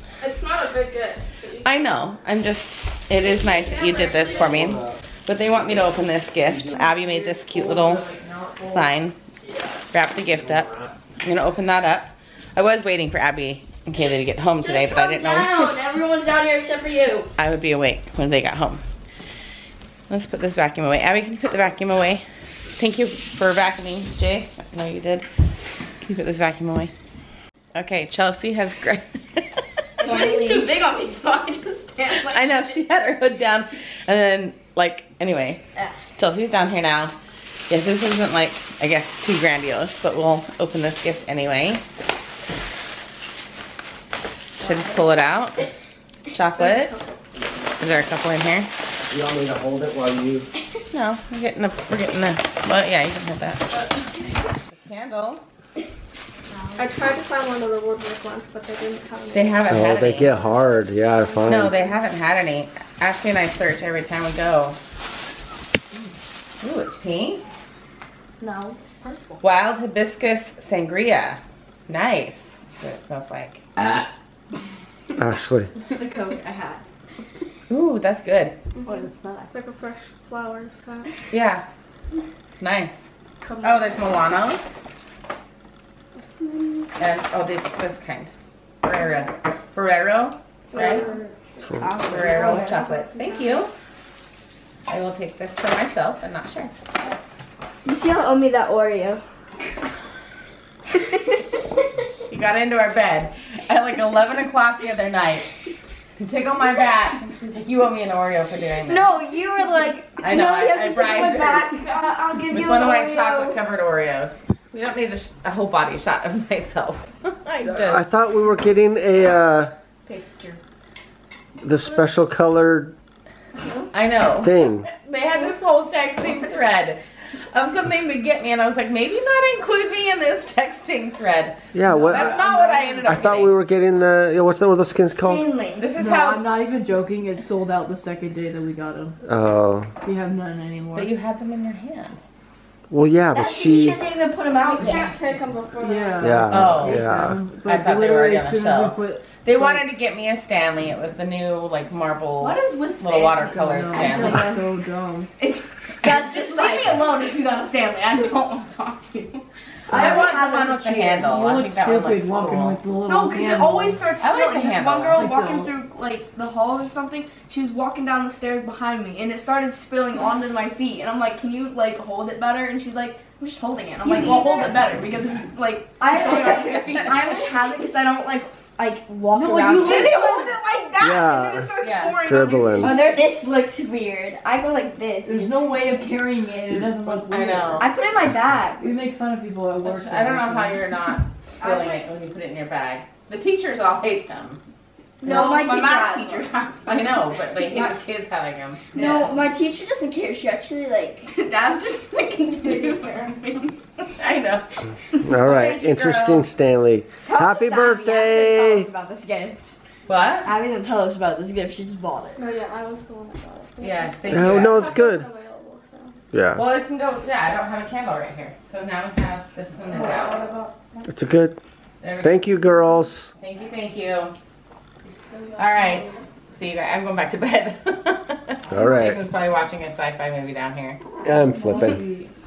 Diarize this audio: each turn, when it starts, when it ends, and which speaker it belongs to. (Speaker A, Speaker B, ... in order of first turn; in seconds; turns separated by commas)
Speaker A: 0.2-1.6, Speaker B: 1.6-8.0, Speaker A: 3.5-4.4, Speaker C: 6.7-8.9, Speaker B: 8.6-9.2, Speaker B: 9.9-15.8, Speaker A: 14.6-17.3, Speaker B: 17.4-18.8, Speaker B: 20.1-22.2, Speaker B: 22.8-25.3, Speaker B: 26.0-26.9, Speaker B: 27.7-29.6, Speaker D: 30.0-32.8, Speaker A: 30.0-30.7, Speaker B: 32.2-35.6, Speaker B: 36.2-37.1, Speaker B: 37.7-41.8, Speaker B: 44.6-45.7, Speaker B: 46.3-47.0, Speaker B: 47.8-48.7, Speaker E: 49.1-50.5, Speaker B: 50.9-54.0, Speaker B: 54.7-55.4, Speaker A: 56.8-59.3, Speaker B: 59.3-60.3, Speaker E: 59.7-61.8, Speaker B: 61.4-64.8, Speaker B: 66.6-67.4, Speaker D: 68.4-69.4, Speaker B: 69.4-73.6, Speaker E: 75.2-75.7, Speaker A: 75.8-76.8, Speaker B: 77.7-78.5, Speaker B: 81.3-81.6, Speaker B: 82.5-83.1, Speaker A: 83.4-83.8, Speaker B: 83.6-84.8, Speaker B: 87.0-88.3, Speaker B: 88.8-91.0, Speaker A: 90.7-92.8, Speaker B: 92.0-93.7, Speaker B: 94.9-96.7, Speaker A: 97.8-99.2, Speaker A: 101.0-101.4, Speaker B: 102.0-105.5, Speaker B: 106.2-109.2, Speaker A: 108.8-113.5, Speaker B: 110.2-111.8, Speaker B: 112.5-118.0, Speaker E: 117.7-119.7, Speaker B: 120.1-120.6, Speaker E: 121.6-122.9, Speaker A: 123.6-123.9, Speaker B: 123.9-127.0, Speaker E: 124.4-124.8, Speaker B: 127.5-131.6, Speaker E: 131.7-135.4, Speaker C: 131.9-132.3, Speaker B: 132.1-133.6, Speaker A: 135.1-135.9, Speaker B: 135.8-136.5, Speaker C: 136.0-139.2, Speaker E: 139.2-139.9, Speaker C: 140.0-141.1, Speaker B: 140.9-142.2, Speaker E: 142.9-144.0, Speaker A: 143.3-146.6, Speaker B: 144.6-145.2, Speaker D: 144.8-145.1, Speaker C: 145.8-149.8, Speaker E: 146.2-147.4, Speaker B: 146.5-147.1, Speaker B: 147.7-154.5, Speaker D: 152.4-154.5, Speaker C: 153.5-155.3, Speaker A: 154.1-154.6, Speaker D: 155.4-159.4, Speaker A: 156.0-157.0, Speaker A: 159.9-161.3, Speaker B: 159.9-162.8, Speaker C: 161.2-164.1, Speaker D: 163.0-178.0, Speaker B: 164.2-165.2, Speaker C: 165.1-165.7, Speaker A: 174.0-174.8, Speaker A: 176.0-180.3, Speaker C: 179.3-180.6, Speaker D: 179.7-183.3, Speaker E: 181.0-183.0, Speaker B: 181.8-182.2, Speaker A: 182.8-185.6, Speaker C: 185.2-187.8, Speaker B: 187.0-187.9, Speaker A: 187.8-188.9, Speaker C: 188.8-190.9, Speaker B: 189.8-194.6, Speaker D: 191.6-191.9, Speaker A: 195.2-196.5, Speaker D: 195.2-198.0, Speaker B: 196.8-198.8, Speaker D: 198.9-199.5, Speaker A: 198.9-201.3, Speaker D: 201.2-203.8, Speaker A: 202.6-202.9, Speaker B: 204.2-204.8, Speaker E: 205.1-208.9, Speaker B: 205.4-206.5, Speaker A: 207.2-209.7, Speaker B: 210.1-210.5, Speaker A: 210.4-212.5, Speaker F: 212.4-213.2, Speaker A: 213.4-213.7, Speaker B: 213.8-214.8, Speaker E: 214.3-215.3, Speaker F: 214.6-216.1, Speaker E: 216.3-216.6, Speaker B: 216.5-220.5, Speaker D: 219.9-220.7, Speaker E: 221.1-221.6, Speaker B: 222.0-222.5, Speaker E: 222.2-223.3, Speaker B: 223.4-224.3, Speaker D: 225.3-226.0, Speaker B: 225.6-231.0, Speaker E: 228.7-229.2, Speaker E: 231.2-232.0, Speaker C: 231.3-232.3